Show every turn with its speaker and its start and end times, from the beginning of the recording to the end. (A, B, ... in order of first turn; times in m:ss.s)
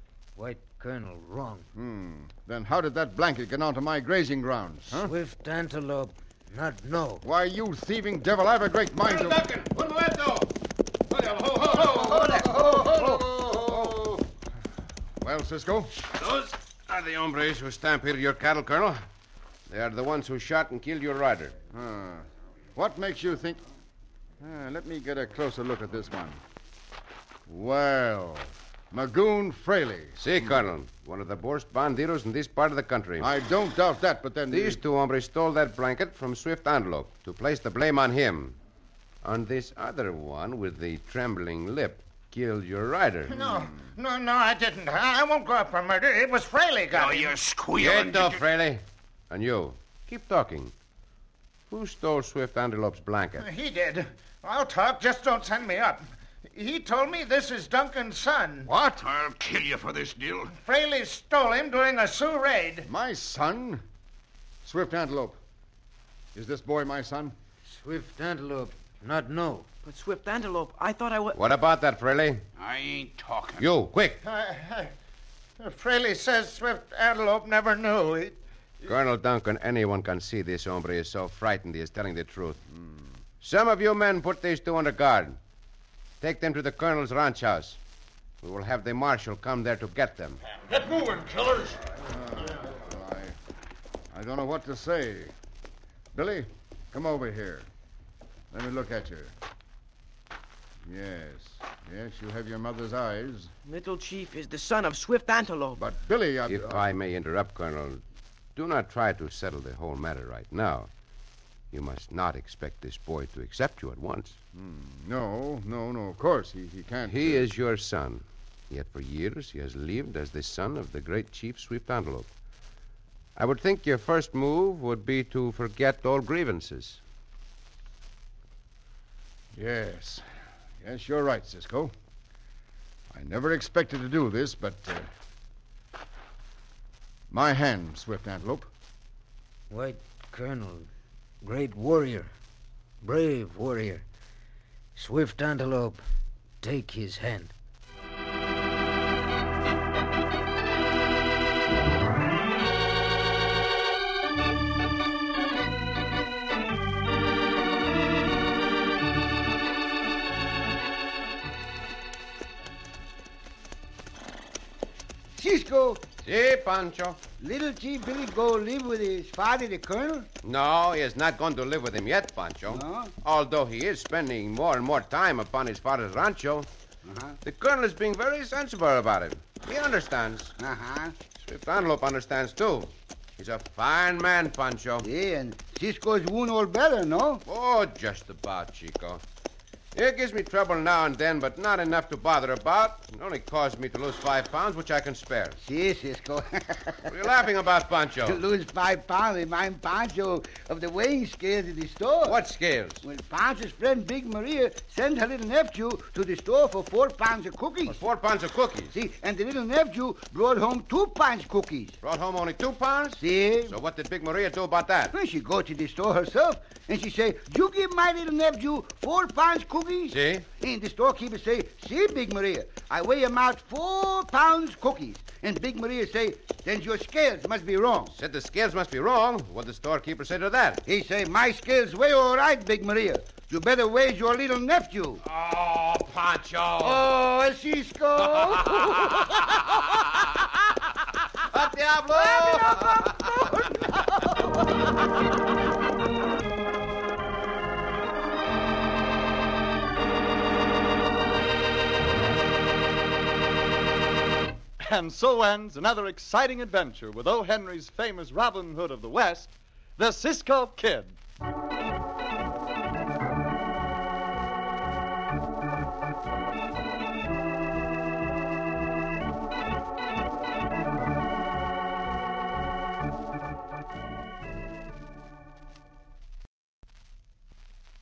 0:00.4-0:01.7 A
0:01.7-0:05.1 B
0:04.9-0:07.2 A
0:07.2-0:09.4 B
0:09.0-0:10.6 C
0:11.1-0:12.6 C
0:11.6-0:14.0 D
0:12.3-0:14.1 B
0:15.2-0:15.9 B
0:16.1-0:19.0 C
0:19.7-0:21.6 C
0:21.7-0:23.6 B
0:24.4-0:26.4 B
0:27.5-0:30.6 B
0:30.2-0:33.3 C
0:33.2-0:34.8 B
0:34.5-0:38.6 C
0:39.2-0:43.4 C
0:43.3-0:47.4 E
0:46.9-0:48.4 F
0:47.8-0:50.7 C
0:51.7-0:53.4 C
0:53.4-0:58.7 E
0:58.7-0:59.0 B
0:59.0-1:00.5 F
1:00.6-1:02.9 E
1:02.8-1:03.8 B
1:04.6-1:05.4 B
1:06.4-1:07.3 B
1:07.6-1:09.7 A
1:09.8-1:11.4 G
1:11.3-1:12.4 C
1:12.6-1:13.6 F
1:13.6-1:14.2 C
1:14.2-1:14.9 E
1:15.6-1:18.4 E
1:18.8-1:22.6 C
1:22.7-1:23.2 B
1:23.4-1:25.4 C
1:26.2-1:27.8 C
1:28.4-1:30.4 C
1:30.9-1:31.2 B
1:31.7-1:33.4 B
1:34.1-1:35.3 B
1:36.1-1:37.7 B
1:38.5-1:39.3 B
1:40.9-1:43.5 B
1:43.6-1:45.8 G
1:45.8-1:46.9 B
1:46.5-1:48.0 C
1:48.6-1:50.9 C
1:51.7-1:54.4 C
1:54.5-1:57.5 B
1:57.1-2:02.3 C
2:03.4-2:07.0 C
2:09.5-2:10.2 B
2:10.8-2:11.9 B
2:13.1-2:15.1 B
2:17.3-2:18.7 B
2:19.7-2:20.9 A
2:21.4-2:22.3 A
2:23.0-2:24.1 A
2:24.9-2:26.0 A
2:26.6-2:27.5 A
2:45.3-2:46.1 D
2:46.2-2:47.2 C
2:47.4-2:50.3 D
2:50.4-2:56.7 C
2:52.7-2:53.1 D
2:57.0-2:57.4 D
2:57.4-3:00.6 C
3:00.6-3:01.2 D
3:01.4-3:05.1 C
3:05.0-3:07.4 D
3:07.4-3:09.2 C
3:09.9-3:15.6 C
3:15.6-3:17.2 D
3:17.1-3:18.4 C
3:18.2-3:22.4 D
3:22.2-3:23.0 C
3:23.0-3:28.0 D
3:27.9-3:28.9 C
3:28.9-3:32.0 D
3:32.0-3:35.1 C
3:33.2-3:33.8 D
3:35.1-3:48.1 D
3:40.1-3:40.4 C
3:48.1-3:50.8 C
3:50.9-3:55.2 D
3:55.2-3:57.0 C
3:56.8-3:59.6 D
3:58.3-4:00.2 C
4:01.5-4:03.6 C
4:02.3-4:03.2 D
4:14.8-4:21.2 H